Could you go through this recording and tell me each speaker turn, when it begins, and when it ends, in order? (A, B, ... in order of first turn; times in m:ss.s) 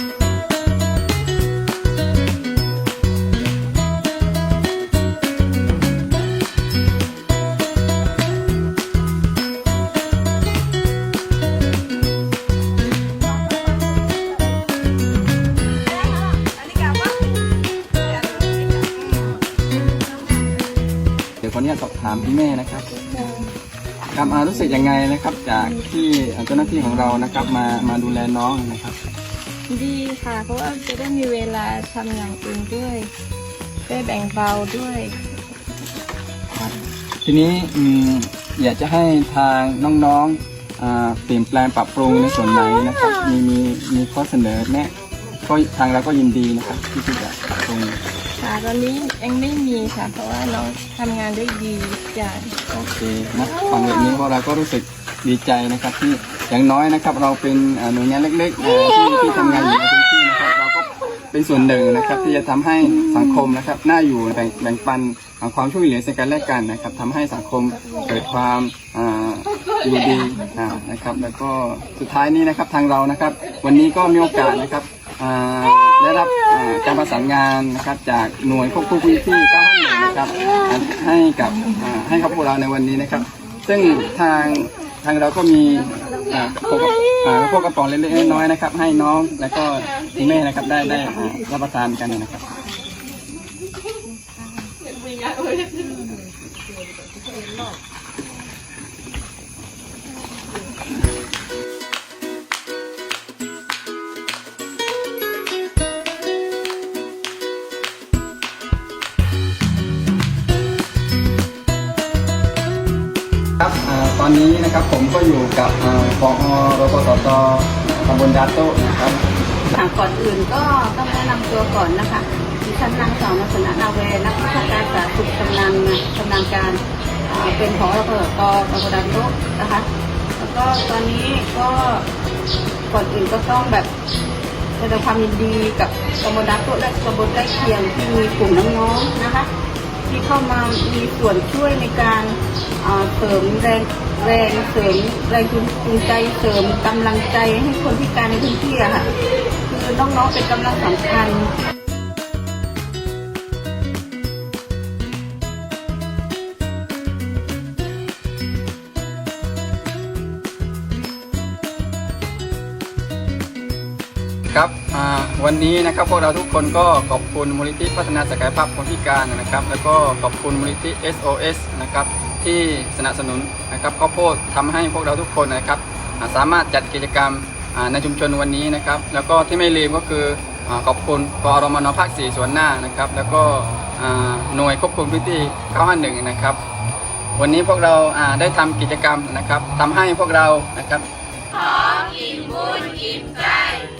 0:21.4-0:23.0 A
0:23.0-0:23.5 B
0:24.1-0:29.0 A
0:29.7-0:33.1 B
0:33.8-0:35.2 B
0:37.2-0:44.9 A
0:42.7-0:43.3 B
0:45.4-0:48.0 A
0:48.4-0:52.6 B
0:52.7-1:32.4 A
1:53.6-1:59.2 A
1:59.7-2:12.0 C
2:12.9-2:13.9 C
2:14.8-2:19.5 C
2:20.1-2:29.1 C
2:29.6-2:31.5 C
2:44.5-3:06.6 A
3:07.4-3:11.1 A
3:12.2-3:13.1 A